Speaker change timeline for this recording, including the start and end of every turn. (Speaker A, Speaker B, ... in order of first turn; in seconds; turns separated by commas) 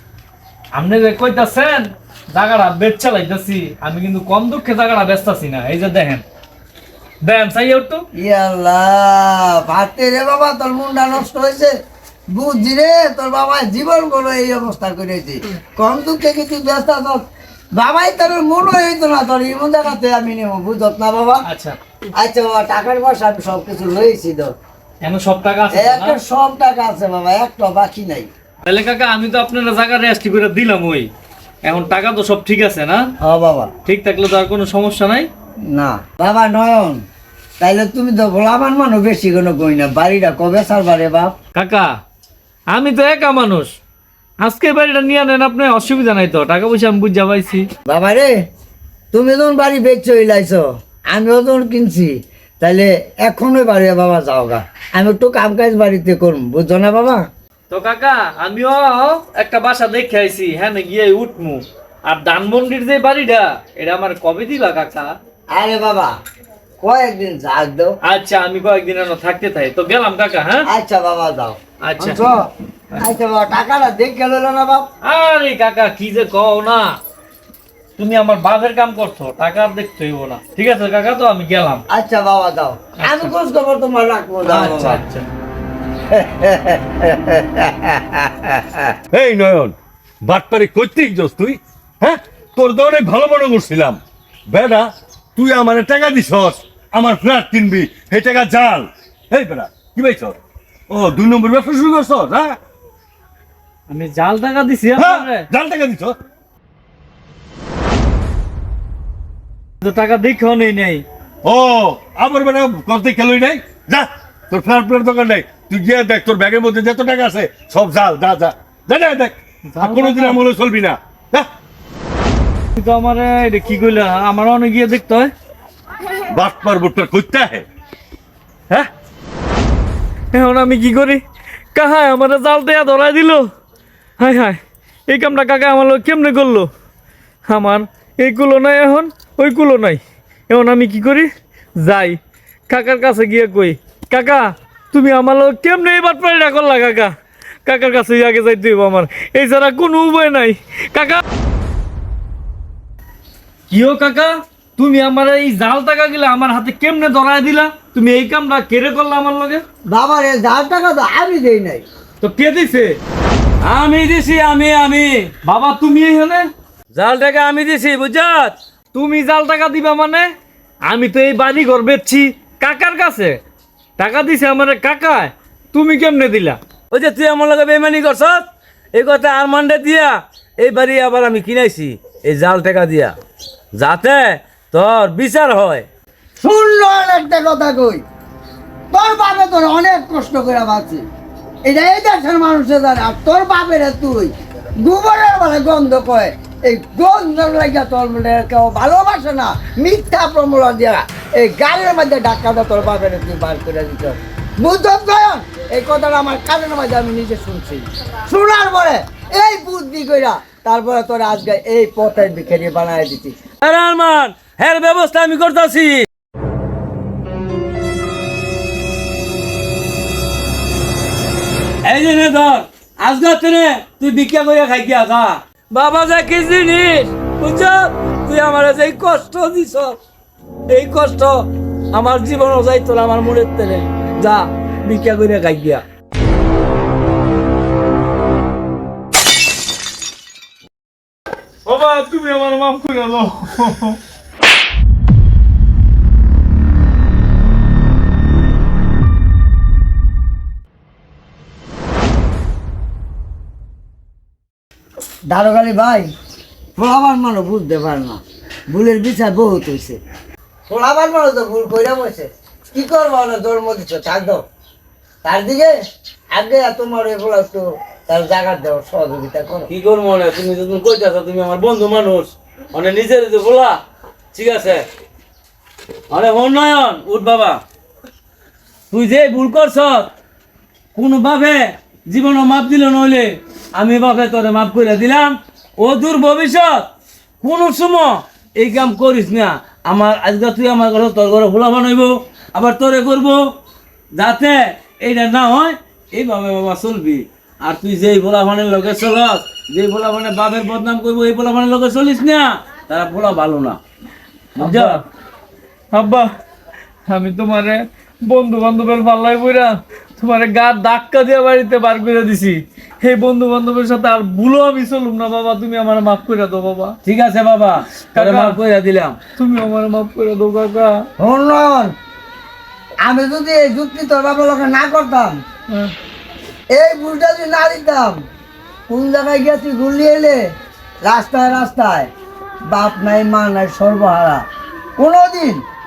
Speaker A: 0.7-6.2, Speaker A: 7.2-8.0, Speaker B: 8.2-11.7, Speaker B: 12.3-21.4, Speaker A: 21.4-21.8, Speaker B: 22.2-24.5, Speaker A: 25.0-26.2, Speaker B: 25.7-28.3, Speaker A: 28.6-31.1, Speaker A: 31.6-33.1, Speaker B: 33.2-33.7, Speaker A: 33.8-35.3, Speaker B: 35.7-37.0, Speaker B: 37.6-41.3, Speaker A: 41.5-42.0, Speaker A: 42.7-43.7, Speaker A: 44.4-47.7, Speaker B: 47.9-48.4, Speaker B: 49.1-57.2, Speaker A: 57.7-65.1, Speaker B: 65.5-66.1, Speaker B: 66.8-68.0, Speaker A: 68.0-70.7, Speaker B: 70.7-74.8, Speaker A: 71.8-72.2, Speaker A: 75.0-77.0, Speaker A: 78.0-81.8, Speaker B: 81.9-85.0, Speaker A: 83.0-83.3, Speaker A: 84.5-85.2, Speaker B: 86.1-89.0, Speaker C: 89.1-100.4, Speaker C: 100.9-102.6, Speaker A: 103.9-105.5, Speaker C: 105.0-106.2, Speaker A: 109.8-111.0, Speaker C: 111.4-121.5, Speaker A: 119.7-120.4, Speaker A: 122.8-125.3, Speaker C: 126.3-127.7, Speaker A: 130.3-131.2, Speaker A: 131.7-133.4, Speaker A: 134.2-134.6, Speaker A: 135.1-136.7, Speaker A: 137.5-141.3, Speaker A: 141.8-142.2, Speaker A: 142.7-147.1, Speaker A: 147.7-151.2, Speaker A: 153.7-159.6, Speaker B: 159.9-161.8, Speaker A: 162.2-163.0, Speaker D: 163.6-165.3, Speaker A: 165.4-166.5, Speaker D: 166.9-168.6, Speaker A: 168.9-170.3, Speaker A: 170.9-173.4, Speaker A: 174.0-176.6, Speaker D: 176.9-183.1, Speaker D: 183.8-185.9, Speaker B: 186.4-188.0, Speaker B: 188.9-191.0, Speaker B: 191.6-213.3, Speaker D: 213.6-216.1, Speaker D: 221.8-230.0, Speaker D: 230.7-235.8, Speaker A: 241.7-244.0, Speaker B: 255.3-256.1, Speaker B: 256.8-260.0, Speaker B: 260.7-264.4, Speaker B: 265.2-265.7, Speaker B: 266.3-269.7, Speaker D: 269.7-273.8, Speaker D: 274.3-274.9, Speaker D: 276.1-277.6, Speaker D: 278.9-280.1, Speaker D: 280.9-286.9, Speaker D: 287.4-293.4, Speaker D: 294.1-303.8, Speaker D: 304.6-305.0, Speaker A: 304.6-305.0, Speaker A: 305.9-306.3, Speaker A: 307.1-316.9, Speaker D: 317.0-319.2, Speaker A: 318.1-318.6, Speaker A: 319.4-321.1, Speaker B: 321.2-321.9, Speaker B: 323.0-325.4, Speaker B: 326.7-328.2, Speaker B: 328.9-330.4, Speaker B: 331.0-332.1, Speaker B: 332.7-334.4, Speaker B: 335.0-335.6